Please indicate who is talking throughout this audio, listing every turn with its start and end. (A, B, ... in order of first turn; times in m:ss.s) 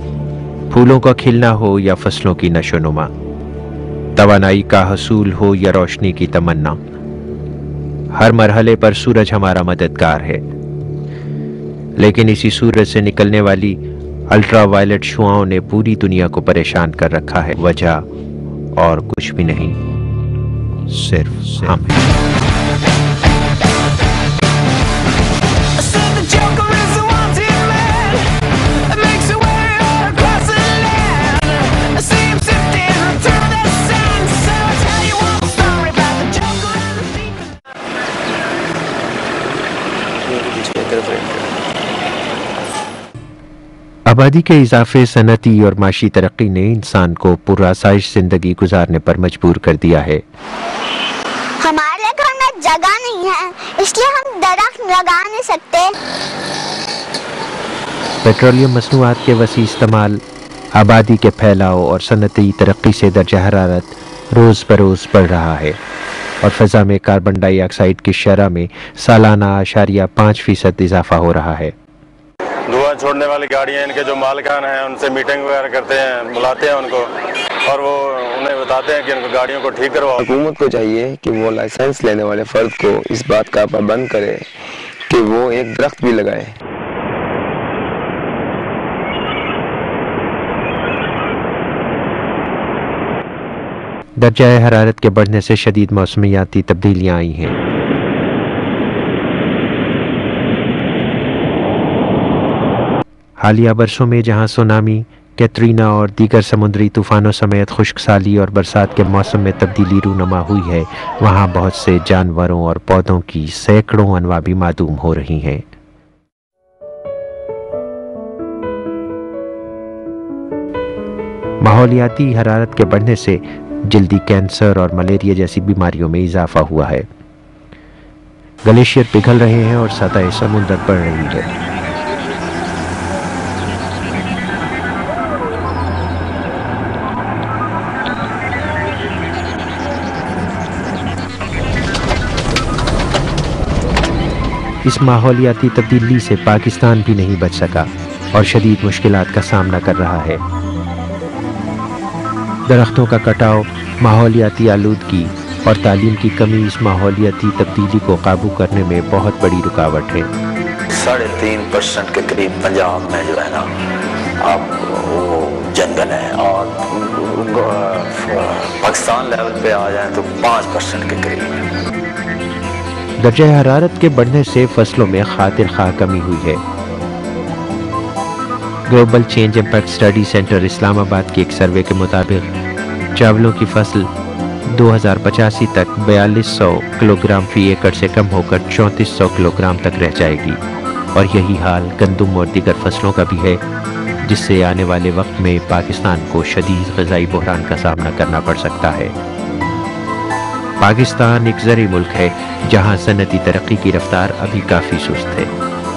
0:00.7-0:03.1 A
0:04.2-0:06.8 A
0:08.2-0:10.4 A
0:12.0-0:18.0 A
0:18.8-0:19.8 A
0:20.9-0:21.9 A
0:40.3-0:41.4 B
0:44.1-0:50.2 A
0:51.6-0:55.9 C
0:58.2-1:00.2 A
1:00.8-1:05.8 A
1:06.4-1:11.7 A
1:12.7-1:17.1 D
1:17.7-1:20.2 D
1:20.2-1:24.4 B
1:25.1-1:26.6 B
1:34.2-1:37.6 A
1:43.4-1:55.6 A
2:01.6-2:07.1 A
2:08.6-2:11.5 A
2:24.8-2:30.4 A
2:32.7-2:40.3 A
2:40.9-2:43.7 E
2:44.4-2:51.6 E
2:53.2-2:56.6 A
2:58.9-3:02.5 A
3:03.2-3:04.1 A
3:04.7-3:10.6 A
3:11.1-3:13.6 A
3:14.2-3:19.2 A
3:20.8-3:25.5 A